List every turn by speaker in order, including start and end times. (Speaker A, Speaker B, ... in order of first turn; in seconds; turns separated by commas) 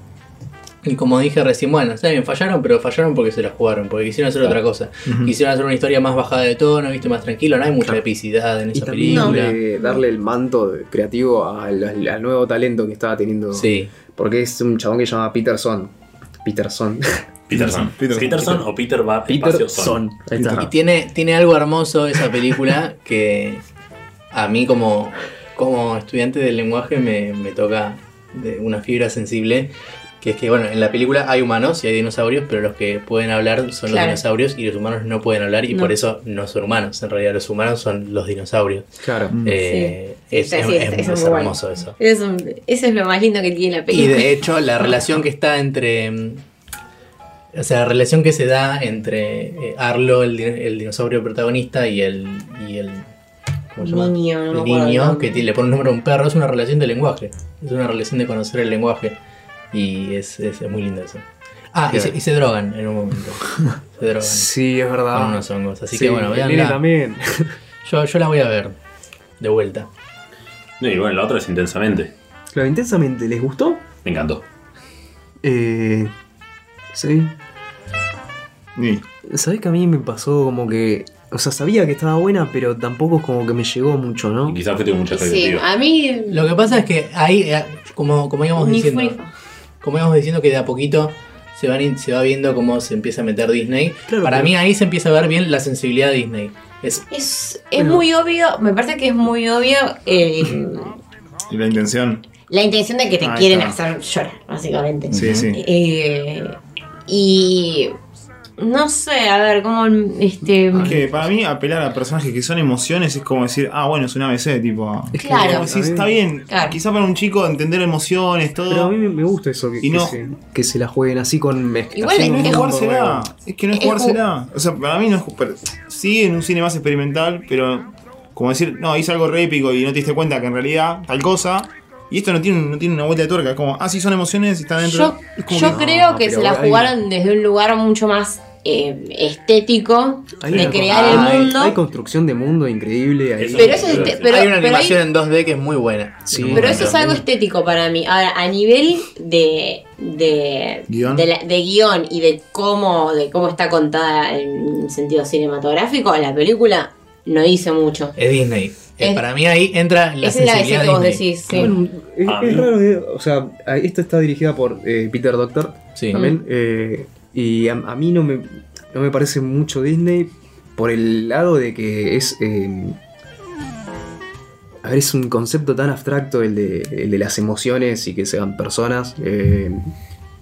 Speaker A: 0.8-9.6, Speaker B: 5.1-5.3, Speaker C: 8.7-18.6, Speaker D: 9.1-10.0, Speaker A: 13.5-13.9, Speaker E: 17.5-20.0, Speaker B: 17.8-18.5, Speaker C: 19.3-20.7, Speaker A: 20.6-23.6, Speaker A: 24.3-38.9, Speaker D: 33.9-34.2, Speaker C: 39.0-39.4, Speaker B: 39.3-39.6, Speaker A: 39.4-42.0, Speaker D: 39.6-44.4, Speaker A: 43.9-46.4, Speaker A: 47.5-53.1, Speaker A: 53.7-59.2, Speaker D: 53.8-55.5, Speaker A: 59.7-64.5, Speaker C: 61.9-62.1, Speaker C: 64.2-67.5, Speaker A: 65.1-66.8, Speaker A: 67.8-68.8, Speaker A: 69.4-69.9, Speaker E: 70.8-72.1, Speaker C: 72.5-73.8, Speaker E: 74.0-74.5, Speaker C: 75.4-76.1, Speaker C: 76.9-77.4, Speaker B: 78.8-79.0, Speaker C: 79.2-84.6, Speaker E: 84.5-85.7, Speaker D: 85.1-86.8, Speaker A: 86.3-89.2, Speaker D: 88.6-89.3, Speaker A: 89.8-97.1, Speaker C: 94.1-94.5, Speaker D: 97.1-100.9, Speaker C: 97.8-98.0, Speaker B: 101.5-102.3, Speaker D: 102.5-108.0, Speaker B: 103.2-103.8, Speaker A: 105.1-105.5, Speaker B: 105.1-105.6, Speaker D: 108.6-111.0, Speaker C: 110.7-111.3, Speaker B: 110.7-118.9, Speaker C: 115.1-116.2, Speaker D: 115.2-115.7, Speaker D: 116.5-116.8, Speaker C: 118.7-123.3, Speaker B: 119.8-120.2, Speaker D: 122.0-122.8, Speaker B: 122.1-135.8, Speaker D: 123.7-124.2, Speaker D: 134.8-141.8, Speaker C: 135.4-137.0, Speaker C: 140.4-144.2, Speaker E: 140.5-140.9, Speaker A: 140.9-141.6, Speaker E: 143.4-144.4, Speaker D: 143.6-145.0, Speaker A: 144.3-147.0, Speaker C: 146.3-147.2, Speaker D: 146.5-158.2, Speaker E: 146.6-147.0, Speaker B: 150.9-151.3, Speaker A: 158.2-161.3, Speaker D: 160.2-161.7, Speaker C: 161.5-173.0, Speaker E: 162.3-162.7, Speaker A: 166.0-166.2, Speaker C: 174.8-179.9